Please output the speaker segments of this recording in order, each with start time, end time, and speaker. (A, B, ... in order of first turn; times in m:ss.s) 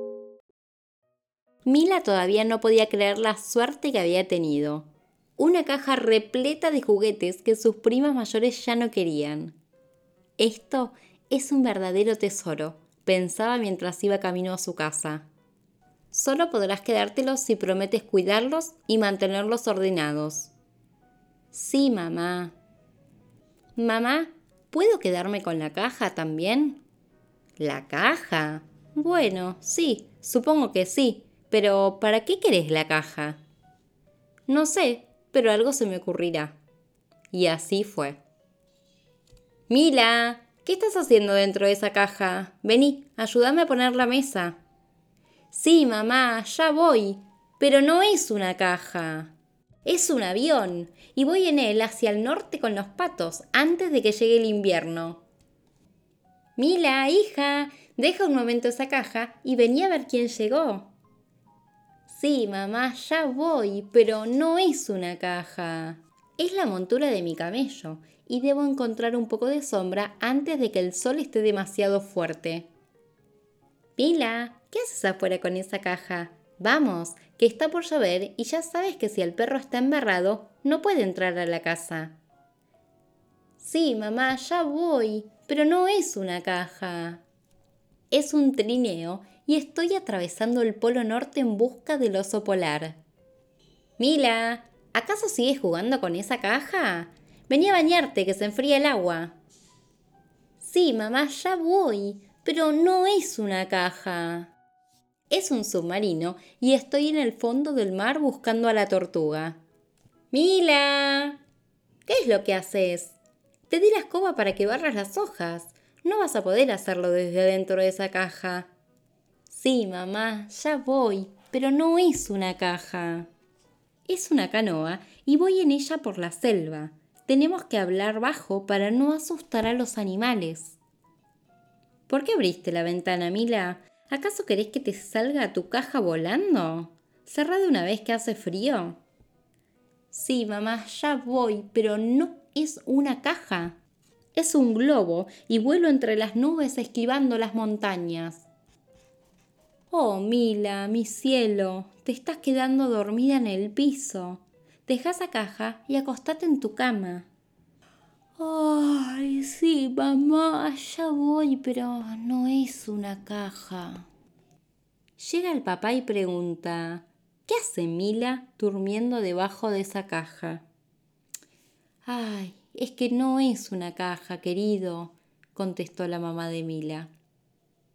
0:01.6-0:09.5 A
0:10.4-0:15.3 A
0:16.1-0:20.5 A
0:21.5-0:22.5 A
0:23.8-0:26.8 A
0:27.6-0:33.4 A
0:34.5-0:36.5 A
0:37.3-0:38.2 A
0:39.7-0:44.6 A
0:45.5-0:49.3 A
0:49.8-0:55.2 A
0:56.6-1:00.9 A
1:02.1-1:12.7 A
1:14.0-1:22.2 A
1:23.6-1:27.2 A
1:28.1-1:33.0 A
1:34.0-1:39.3 A
1:40.6-1:44.5 A
1:45.3-1:49.6 A
1:50.3-1:51.4 A
1:52.0-1:53.2 A
1:53.7-1:58.7 A
1:59.5-2:03.3 A
2:04.1-2:10.8 A
2:12.1-2:19.0 A
2:20.1-2:23.8 A
2:24.3-2:28.4 A
2:29.9-2:37.3 A
2:38.4-2:44.1 A
2:45.2-2:50.6 A
2:52.0-2:57.1 A